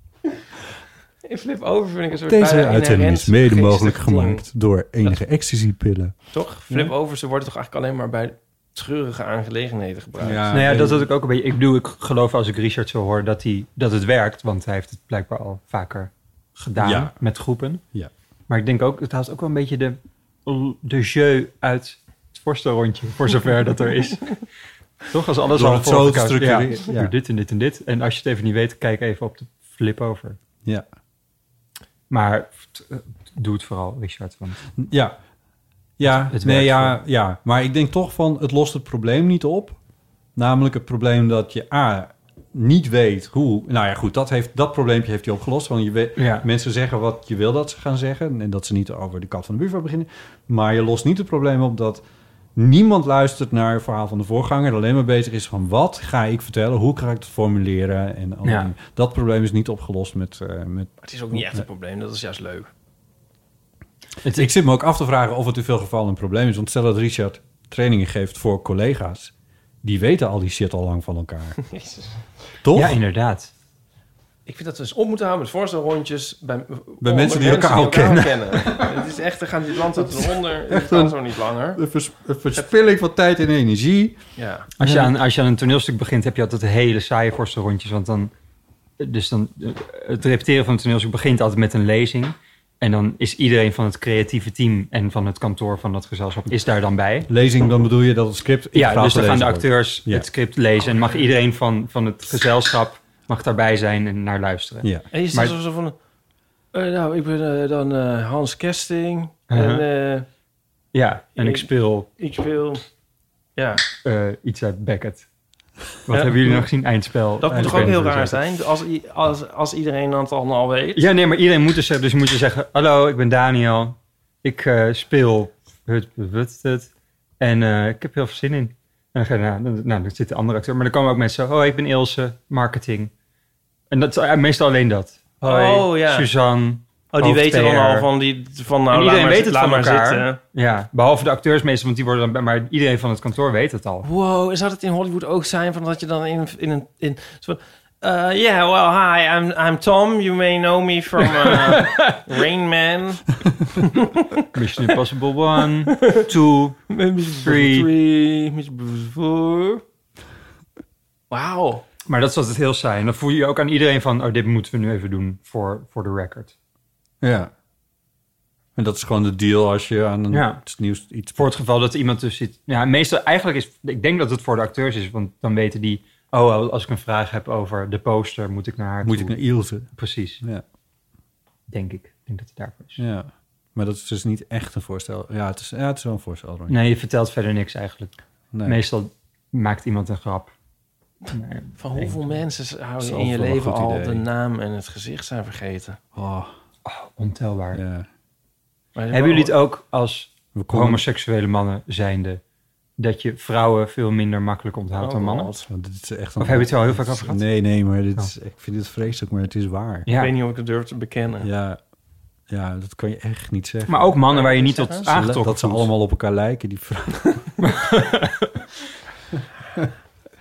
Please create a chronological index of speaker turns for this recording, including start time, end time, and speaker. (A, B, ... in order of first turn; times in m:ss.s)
0:01.3-0:04.5 A
0:02.3-0:06.2 B
0:06.3-0:10.6 A
0:10.2-0:11.1 B
0:10.5-0:17.8 C
0:16.8-0:17.2 B
0:18.5-0:24.4 C
0:25.1-0:30.4 C
0:25.5-0:27.1 B
0:32.1-0:34.6 C
0:34.8-0:35.2 B
0:36.0-0:39.8 B
0:36.3-0:37.0 C
0:40.4-0:52.0 B
0:46.2-0:46.4 C
0:52.6-1:01.6 B
0:58.4-0:58.7 C
1:01.0-1:02.7 A
1:04.2-1:04.5 C
1:04.3-1:11.6 B
1:11.6-1:12.2 A
1:12.6-1:13.0 B
1:12.7-1:13.5 C
1:14.4-1:21.8 A
1:17.0-1:19.0 B
1:20.2-1:21.2 B
1:21.7-1:24.2 B
1:24.4-1:24.7 A
1:24.8-1:28.3 C
1:24.8-1:25.1 B
1:29.0-1:37.3 C
1:37.3-1:40.3 B
1:38.7-1:45.6 C
1:45.1-1:46.0 A
1:46.7-1:50.3 A
1:49.5-1:49.8 C
1:50.9-1:52.1 C
1:51.4-1:52.8 A
1:53.6-1:53.8 A
1:54.0-1:55.3 C
1:56.1-1:58.4 C
1:56.1-1:56.6 A
1:57.4-2:01.0 A
1:57.5-1:58.2 B
2:01.0-2:13.1 C
2:13.9-2:18.1 C
2:15.4-2:16.3 A
2:17.1-2:20.4 A
2:18.9-2:24.1 C
2:24.0-2:34.5 A
2:34.5-2:36.9 C
2:35.9-2:36.2 A
2:36.9-2:39.8 A
2:37.4-2:37.9 C
2:41.3-2:41.8 A
2:42.1-2:46.5 C
2:47.2-2:47.5 B
2:48.8-2:51.5 B
2:50.3-2:50.6 C
2:51.4-2:59.4 C
2:59.0-3:00.6 B
3:00.0-3:00.4 C
3:01.7-3:03.0 C
3:03.0-3:06.8 B
3:06.7-3:08.1 C
3:08.5-3:08.8 B
3:08.6-3:10.5 C
3:11.3-3:12.2 C
3:11.8-3:16.0 A
3:13.0-3:14.2 B
3:16.2-3:16.5 B
3:16.8-3:17.8 C
3:17.7-3:18.1 B
3:19.0-3:19.5 A
3:19.1-3:22.4 C
3:20.6-3:21.0 B
3:23.0-3:25.5 C
3:25.0-3:25.7 A
3:25.7-3:30.1 B
3:26.4-3:27.4 C
3:30.1-3:30.3 C
3:30.1-3:31.5 A
3:31.4-3:31.8 B
3:32.5-3:34.2 B
3:33.9-3:35.9 C
3:34.3-3:35.1 A
3:35.0-3:37.5 B
3:37.6-3:38.5 C